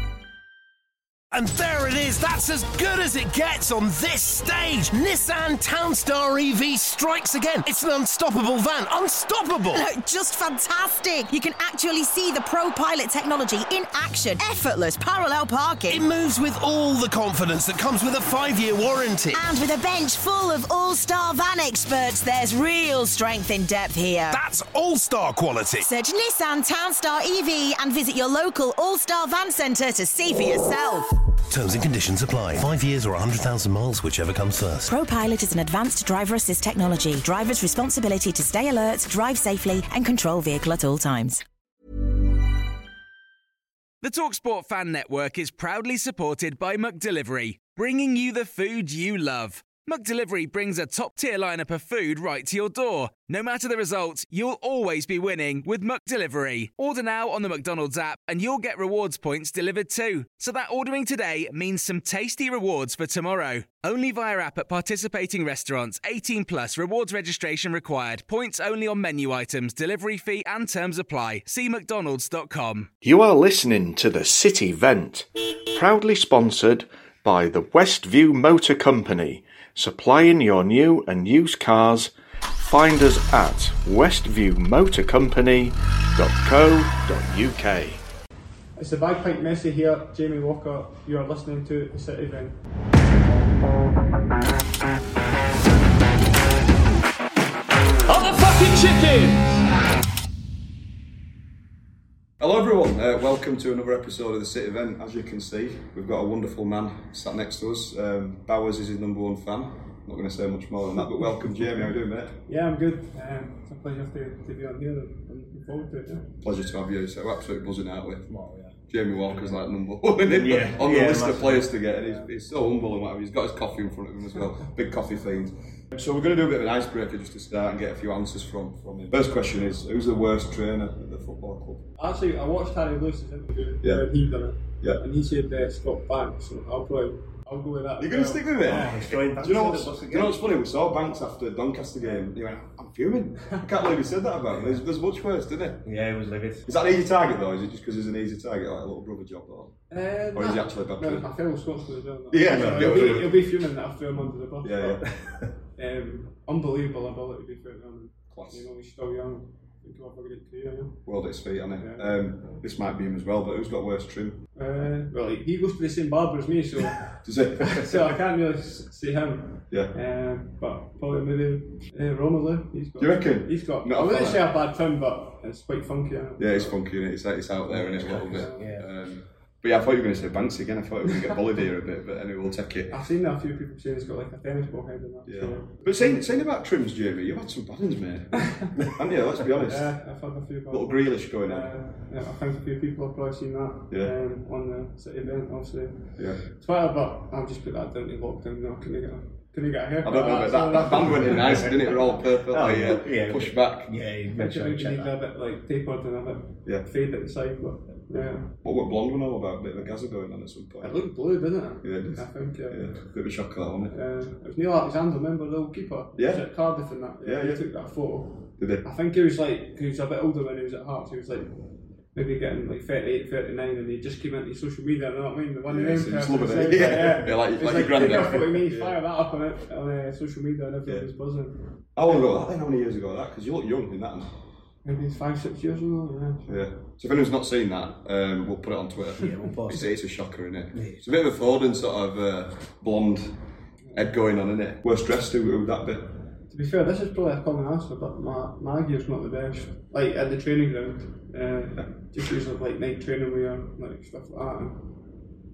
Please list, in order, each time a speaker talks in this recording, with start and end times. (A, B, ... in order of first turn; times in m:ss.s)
0:01.3-0:09.8 A
0:09.7-0:16.0 B
0:15.9-0:19.4 A
0:19.3-0:24.4 B
0:24.3-0:25.9 A
0:25.8-0:31.1 B
0:31.5-0:34.9 A
0:34.8-0:41.4 B
0:44.0-1:12.9 C
1:13.0-1:28.0 D
1:28.8-1:32.6 E
1:42.4-1:52.4 F
1:52.4-1:56.4 E
1:56.4-1:58.3 F
1:58.3-1:58.7 G
1:58.9-2:11.8 F
2:00.2-2:01.8 G
2:02.0-2:02.3 E
2:12.0-2:18.8 E
2:18.0-2:25.8 F
2:18.6-2:20.4 G
2:24.5-2:24.8 G
2:25.8-2:26.7 G
2:26.6-2:29.8 F
2:29.9-2:35.0 E
2:30.3-2:31.3 F
2:32.3-2:33.4 F
2:32.4-2:33.3 G
2:34.6-2:35.1 F
2:35.8-2:41.0 E
2:38.3-2:38.6 F
2:41.0-2:44.4 F
2:41.8-2:42.5 E
2:44.5-2:56.8 E
2:47.2-2:48.2 F
2:53.0-2:54.5 F
2:56.4-3:02.9 F
2:57.7-2:58.9 G
2:58.3-2:58.7 E
3:02.9-3:06.3 E
3:05.2-3:10.0 F
3:09.6-3:22.2 E
3:10.7-3:11.7 F
3:20.0-3:23.9 F
3:21.2-3:22.0 G
3:22.5-3:25.1 G
3:24.3-3:28.6 E
3:28.6-3:31.1 F
3:30.8-3:33.0 E
3:31.8-3:33.9 F
3:33.9-3:52.3 E
3:36.2-3:36.4 F
3:37.2-3:37.6 F
3:38.6-3:38.8 F
3:45.7-3:49.0 F
3:48.0-3:48.4 G
3:51.9-3:54.3 F
3:54.8-3:56.6 E
3:56.5-4:03.4 F
3:59.2-4:00.0 G
4:00.7-4:01.0 G
4:03.9-4:06.2 F
4:06.5-4:15.1 E